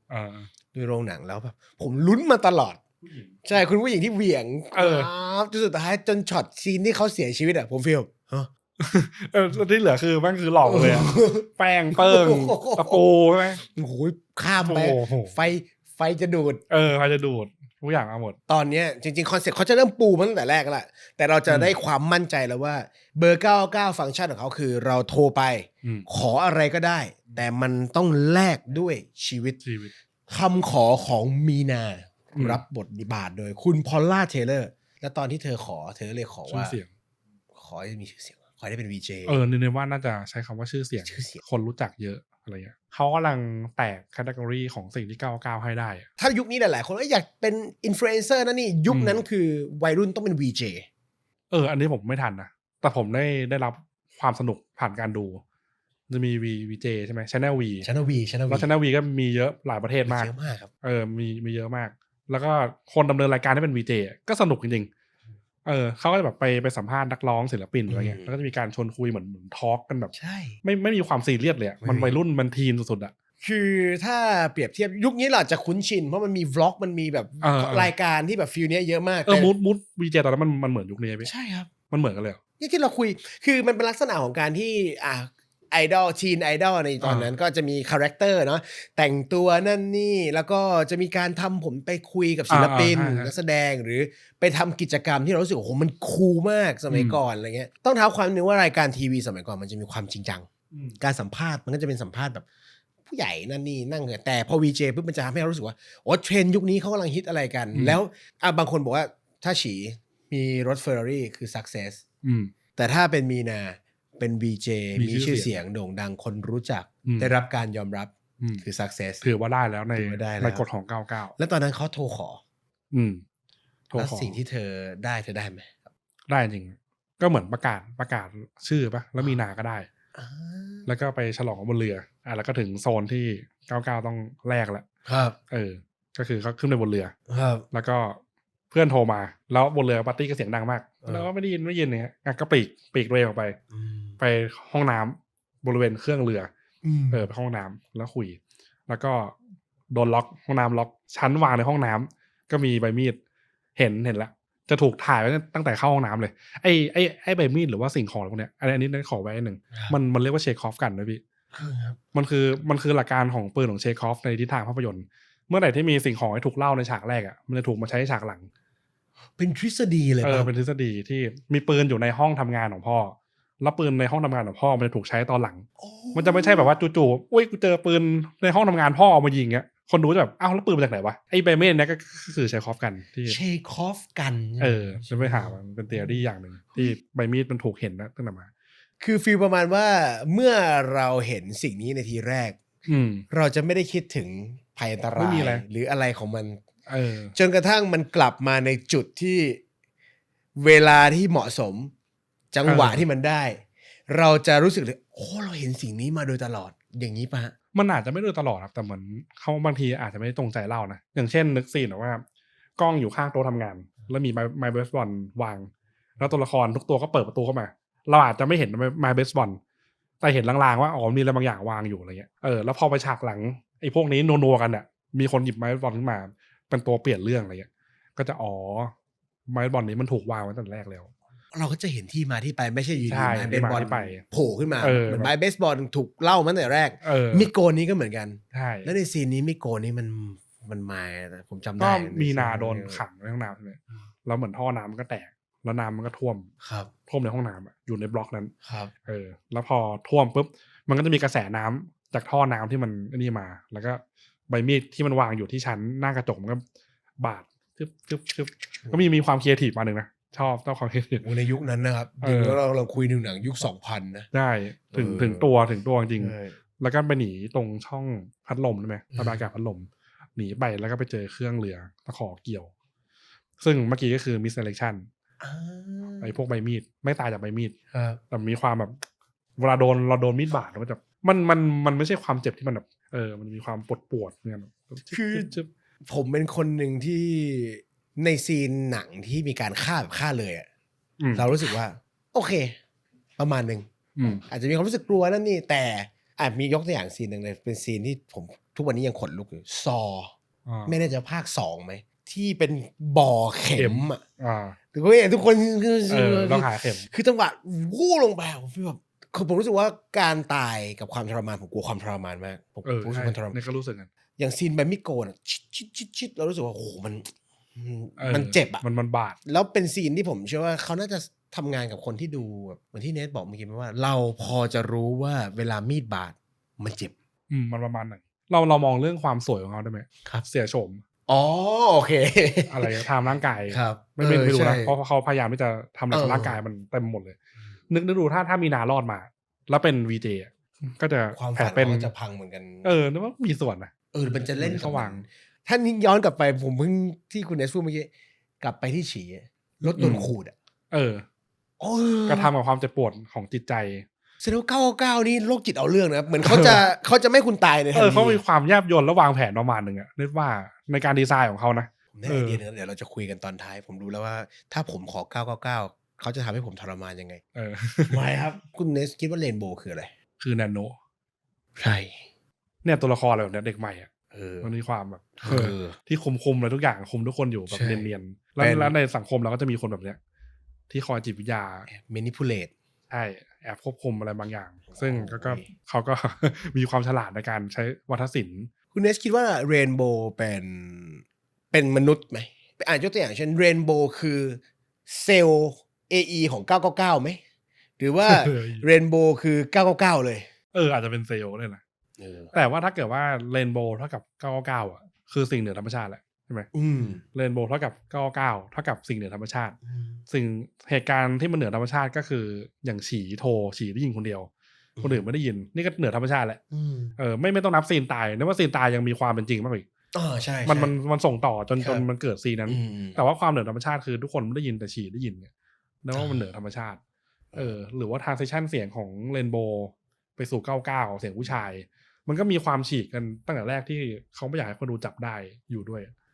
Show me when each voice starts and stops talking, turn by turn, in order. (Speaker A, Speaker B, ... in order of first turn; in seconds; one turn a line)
Speaker A: 0.1-0.5
Speaker B: 0.7-2.8
Speaker A: 3.0-3.4
Speaker B: 3.5-8.5
Speaker A: 4.8-5.1
Speaker A: 8.8-13.6
Speaker B: 10.6-13.0
Speaker B: 13.6-16.6
Speaker A: 14.6-15.4
Speaker A: 16.7-18.4
Speaker B: 18.5-29.6
Speaker A: 21.5-21.8
Speaker A: 29.6-29.9
Speaker B: 30.3-36.8
Speaker A: 32.4-32.6
Speaker A: 36.5-36.9
Speaker B: 37.5-39.4
Speaker A: 39.3-46.1
Speaker B: 41.1-41.4
Speaker B: 46.2-50.9
Speaker A: 48.9-49.2
Speaker A: 51.5-55.4
Speaker A: 56.1-57.9
Speaker B: 57.8-58.7
Speaker A: 58.5-60.3
Speaker B: 60.1-60.7
Speaker A: 60.8-64.9
Speaker A: 65.7-73.1
Speaker B: 67.9-68.4
Speaker B: 70.1-70.6
Speaker B: 71.8-72.2
Speaker B: 73.4-79.5
Speaker A: 77.4-77.9
Speaker A: 79.3-81.3
Speaker B: 81.2-81.7
Speaker A: 81.9-82.4
Speaker B: 82.6-102.5
Speaker A: 87.0-87.3
Speaker A: 92.5-93.3
Speaker A: 96.9-97.2
Speaker A: 100.7-101.0
Speaker B: 103.1-112.0
Speaker A: 107.7-108.0
Speaker A: 112.2-112.5
Speaker B: 112.8-119.2
Speaker A: 115.0-115.5
Speaker A: 117.0-117.3
Speaker A: 119.2-121.3
Speaker B: 119.9-120.7
Speaker B: 121.4-122.4
Speaker A: 122.9-123.2
Speaker A: 123.9-124.4
Speaker B: 124.0-125.9
Speaker A: 126.3-129.9
Speaker B: 130.2-130.9
Speaker A: 130.9-134.8
Speaker B: 135.1-135.4
Speaker A: 135.5-137.2
Speaker B: 137.3-137.7
Speaker A: 137.7-138.2
Speaker A: 138.7-143.6
Speaker B: 141.0-141.3
Speaker B: 143.7-144.2
Speaker A: 144.2-146.5
Speaker B: 146.8-147.3
Speaker A: 147.1-149.4
Speaker A: 149.9-153.2
Speaker A: 153.8-161.2
Speaker B: 161.5-162.0
Speaker A: 162.2-168.5
Speaker B: 169.4-170.5
Speaker A: 170.2-183.4
Speaker B: 175.8-176.7
Speaker B: 183.3-186.2
Speaker A: 184.6-188.5
Speaker B: 189.0-192.7
Speaker A: 192.9-193.3
Speaker B: 193.3-196.6
Speaker A: 195.1-195.7
Speaker A: 196.9-197.3
Speaker B: 197.3-199.6
Speaker B: 200.6-201.9
Speaker B: 202.5-207.5
Speaker A: 202.7-203.1
Speaker A: 207.7-212.2
Speaker A: 212.8-219.6
Speaker A: 220.2-228.9
Speaker A: 229.5-231.1
Speaker B: 231.5-243.0
Speaker A: 233.1-234.2
Speaker A: 234.8-235.3
Speaker A: 237.0-237.5
Speaker A: 238.5-238.9
Speaker A: 241.8-246.5
Speaker B: 246.6-246.9
Speaker A: 247.1-248.5
Speaker B: 248.6-248.9
Speaker A: 249.1-256.6
Speaker A: 257.2-261.2
Speaker B: 261.2-264.3
Speaker A: 262.2-262.6
Speaker A: 264.3-272.7
Speaker B: 264.9-265.5
Speaker B: 266.2-266.6
Speaker A: 273.6-275.1
Speaker B: 275.4-276.4
Speaker A: 276.2-277.8
Speaker B: 277.9-278.2
Speaker A: 278.3-279.0
Speaker A: 279.6-285.7
Speaker B: 285.1-285.5
Speaker B: 286.1-290.7
Speaker A: 291.2-291.5
Speaker B: 291.3-292.8
Speaker B: 293.4-300.3
Speaker A: 294.2-294.4
Speaker A: 300.7-300.9
Speaker B: 300.9-304.2
Speaker A: 303.8-304.8
Speaker B: 304.9-313.6
Speaker A: 306.1-307.1
Speaker A: 312.9-314.1
Speaker B: 314.4-318.8
Speaker A: 318.2-319.4
Speaker B: 319.4-327.1
Speaker A: 327.5-331.0
Speaker B: 331.3-333.1
Speaker A: 332.7-337.4
Speaker B: 333.7-335.0
Speaker B: 336.1-336.6
Speaker A: 337.9-342.1
Speaker B: 341.3-342.9
Speaker A: 342.8-343.9
Speaker B: 344.1-348.1
Speaker A: 344.5-345.2
Speaker B: 348.6-350.5
Speaker A: 349.9-350.3
Speaker A: 350.9-351.2
Speaker B: 351.8-352.5
Speaker A: 352.3-354.1
Speaker B: 354.4-358.4
Speaker A: 356.4-356.8
Speaker A: 357.9-362.6
Speaker B: 362.1-367.4
Speaker A: 367.6-368.2
Speaker B: 368.1-370.1
Speaker A: 370.4-371.0
Speaker B: 371.8-372.2
Speaker A: 372.8-374.1
Speaker B: 374.3-374.7
Speaker A: 374.6-380.2
Speaker B: 375.4-376.0
Speaker B: 377.7-378.1
Speaker B: 378.6-378.9
Speaker A: 380.9-381.9
Speaker B: 381.9-382.7
Speaker A: 383.1-388.7
Speaker B: 384.9-385.7
Speaker B: 388.9-397.4
Speaker B: 398.0-400.5
Speaker A: 398.3-398.9
Speaker A: 400.7-401.8
Speaker B: 402.2-402.5
Speaker A: 402.5-406.7
Speaker B: 406.7-407.2
Speaker A: 407.3-409.8
Speaker B: 409.9-410.2
Speaker A: 410.3-414.5
Speaker B: 415.0-415.2
Speaker A: 415.0-416.6
Speaker B: 416.7-417.2
Speaker A: 417.2-419.9
Speaker B: 420.1-420.9
Speaker A: 420.6-425.5
Speaker B: 421.8-422.1
Speaker B: 422.7-423.2
Speaker A: 426.0-427.0
Speaker B: 426.1-426.5
Speaker A: 427.6-436.1